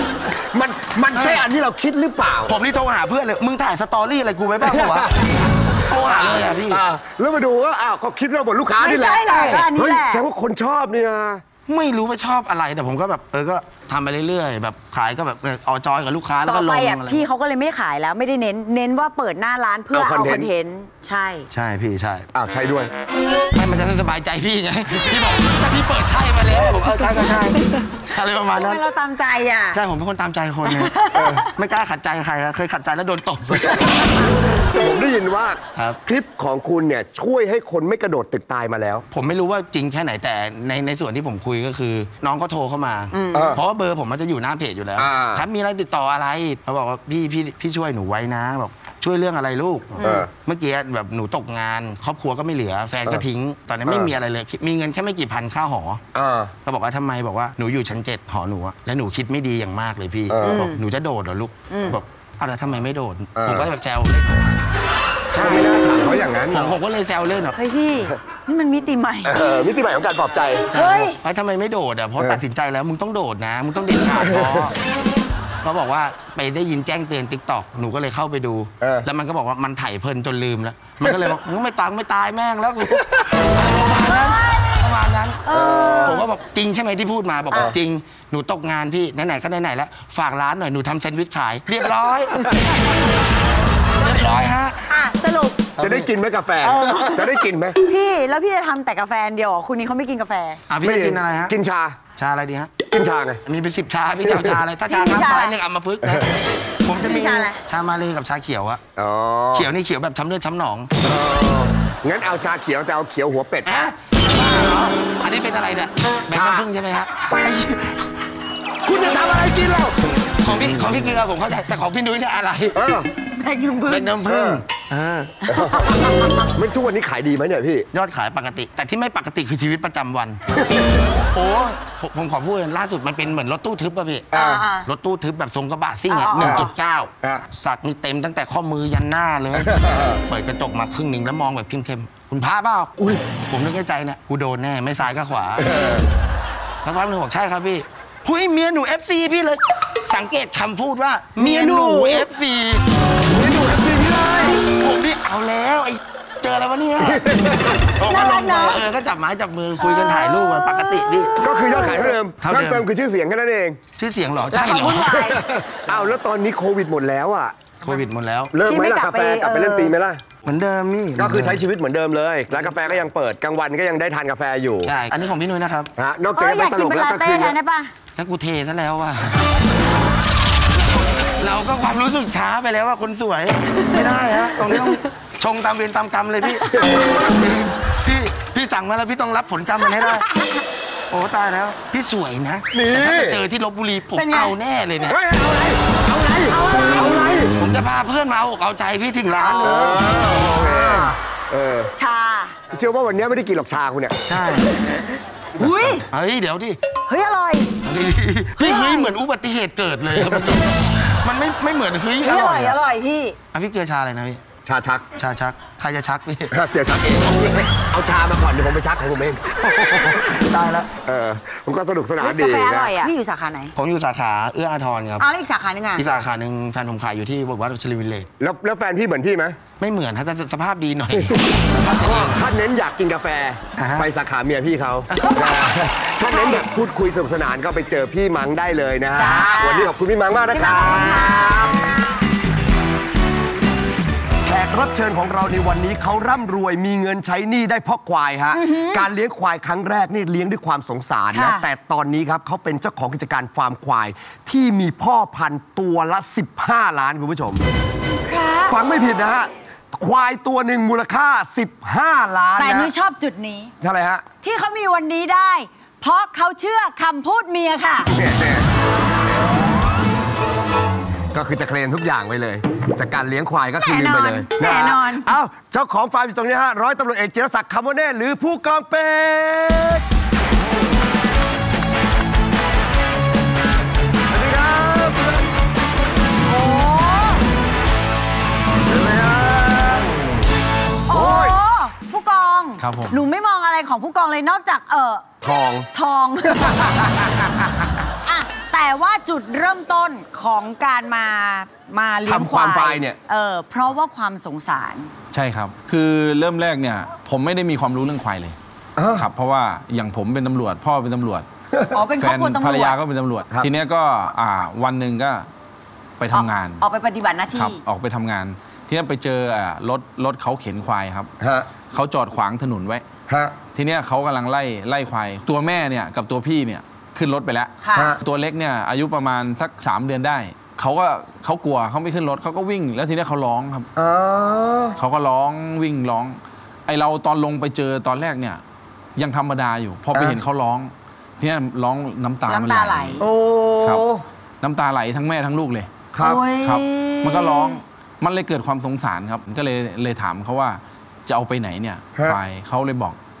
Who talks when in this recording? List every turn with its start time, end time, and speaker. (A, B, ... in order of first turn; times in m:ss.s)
0:00.2-0:02.6 A
0:01.1-0:01.4 B
0:02.4-0:05.1 B
0:04.6-0:11.4 A
0:05.7-0:06.8 B
0:08.8-0:10.2 C
0:09.3-0:09.7 B
0:11.7-0:17.3 B
0:16.4-0:21.5 C
0:19.9-0:20.5 A
0:21.5-0:22.3 B
0:22.3-0:22.9 A
0:23.5-0:28.8 B
0:27.3-0:27.8 C
0:28.5-0:29.8 C
0:29.7-0:31.0 B
0:30.6-0:31.5 C
0:31.1-0:31.5 A
0:31.5-0:34.1 B
0:34.7-0:39.0 A
0:39.1-0:56.0 B
0:43.1-0:43.6 C
0:43.3-0:43.6 A
0:45.0-0:45.4 A
0:50.0-0:50.3 C
0:50.0-0:50.3 A
0:53.8-0:54.1 A
0:56.1-0:56.5 A
0:56.6-1:04.6 B
1:00.3-1:00.6 A
1:00.4-1:00.8 C
1:01.7-1:02.0 C
1:03.4-1:03.7 A
1:05.3-1:05.7 B
1:05.3-1:06.8 A
1:06.5-1:07.6 B
1:07.5-1:09.3 C
1:09.2-1:10.7 A
1:10.7-1:14.8 B
1:10.7-1:11.2 C
1:14.1-1:14.7 A
1:15.6-1:25.4 B
1:18.8-1:19.0 A
1:25.4-1:26.2 C
1:25.5-1:26.2 A
1:26.0-1:32.5 B
1:34.0-1:34.8 B
1:34.9-1:35.7 C
1:35.8-1:36.1 B
1:35.8-1:37.8 A
1:36.6-1:37.3 C
1:37.8-1:40.6 C
1:40.7-1:41.5 B
1:40.8-1:42.0 A
1:42.2-1:42.7 B
1:42.9-1:43.4 A
1:43.4-1:48.8 B
1:44.2-1:44.6 A
1:44.9-1:45.6 C
1:46.0-1:46.3 A
1:46.9-1:47.6 C
1:49.0-1:49.7 A
1:49.5-1:50.9 B
1:51.0-1:53.9 A
1:53.6-1:58.2 B
1:56.3-1:56.7 A
1:58.8-2:00.1 A
2:00.4-2:02.8 B
2:02.7-2:03.1 A
2:03.3-2:04.1 C
2:03.9-2:05.4 B
2:04.2-2:04.6 A
2:05.4-2:06.5 C
2:05.5-2:07.9 A
2:07.9-2:10.4 B
2:10.6-2:10.8 A
2:11.3-2:22.9 B
2:14.3-2:14.7 A
2:14.3-2:14.9 C
2:16.1-2:16.7 C
2:16.3-2:16.7 A
2:19.5-2:20.2 A
2:23.5-2:25.7 B
2:25.6-2:26.1 A
2:26.8-2:32.8 B
2:31.4-2:32.3 A
2:33.3-2:34.6 A
2:34.7-2:41.4 B
2:37.0-2:37.8 A
2:38.0-2:38.8 C
2:39.8-2:42.1 C
2:41.4-2:43.8 A
2:42.4-2:42.8 B
2:44.0-2:45.3 B
2:44.5-2:45.4 C
2:45.0-2:47.6 A
2:47.8-2:48.5 B
2:48.5-2:50.2 A
2:48.7-2:49.9 C
2:50.4-2:51.6 B
2:51.2-2:54.9 A
2:52.5-2:53.0 B
2:54.8-2:55.9 B
2:56.0-2:57.6 A
2:56.3-2:57.9 C
2:58.2-2:59.5 B
3:01.0-3:10.3 B
3:06.8-3:07.1 A
3:10.1-3:10.6 C
3:11.1-3:15.2 B
3:12.7-3:13.4 A
3:14.1-3:14.5 C
3:15.1-3:17.5 A
3:16.5-3:17.5 C
3:17.6-3:20.0 B
3:19.6-3:21.9 A
3:20.4-3:21.1 C
3:22.0-3:22.6 C
3:22.7-3:24.2 A
3:24.3-3:24.7 B
3:25.6-3:26.0 C
3:25.6-3:26.0 A
3:26.1-3:26.8 B
3:27.1-3:27.7 C
3:27.8-3:32.8 B
3:28.6-3:29.1 C
3:30.1-3:30.5 A
3:32.2-3:33.4 C
3:33.5-3:34.4 B
3:34.6-3:35.1 A
3:35.2-3:36.5 B
3:36.5-3:39.6 A
3:39.6-3:40.9 B
3:41.0-3:43.1 A
3:42.2-3:43.7 C
3:43.7-3:45.3 B
3:45.2-3:46.0 C
3:45.9-3:48.3 B
3:48.4-3:49.6 A
3:49.8-3:52.4 B
3:51.1-4:01.9 A
3:53.8-3:54.1 B
3:55.1-3:55.7 B
3:56.3-3:56.6 C
3:59.2-3:59.9 C
4:00.5-4:02.0 C
4:04.4-4:17.6 A
4:08.5-4:09.0 C
4:11.3-4:11.6 C
4:18.2-4:18.8 C
4:18.6-4:22.9 A
4:22.6-4:23.7 C
4:23.8-4:24.2 A
4:24.4-4:28.1 C
4:28.1-4:28.7 A
4:31.3-4:40.0 A
4:33.8-4:35.3 C
4:44.3-4:45.5 A
4:46.4-4:47.4 C
4:48.9-4:50.3 A
4:51.1-4:55.4 C
4:51.1-4:51.6 A
4:52.8-4:53.2 D
4:55.4-4:55.9 A
4:55.9-4:57.4 C
4:58.2-5:05.1 C
5:02.2-5:03.2 A
5:05.3-5:08.6 D
5:09.0-5:09.3 A
5:09.1-5:11.4 D
5:11.9-5:13.0 C
5:12.2-5:15.5 D
5:16.2-5:16.8 D
5:16.3-5:17.8 C
5:17.5-5:21.3 D
5:21.4-5:21.7 A
5:21.9-5:23.0 D
5:23.3-5:23.6 A
5:23.7-5:33.9 D
5:27.8-5:28.1 C
5:27.9-5:28.2 A
5:34.0-5:35.0 A
5:35.0-5:38.6 D
5:39.2-5:43.2 D
5:40.1-5:40.4 A
5:42.5-5:43.2 C
5:43.2-5:44.2 A
5:44.6-5:45.9 D
5:46.1-5:46.4 A
5:46.2-5:47.8 C
5:46.6-5:53.2 D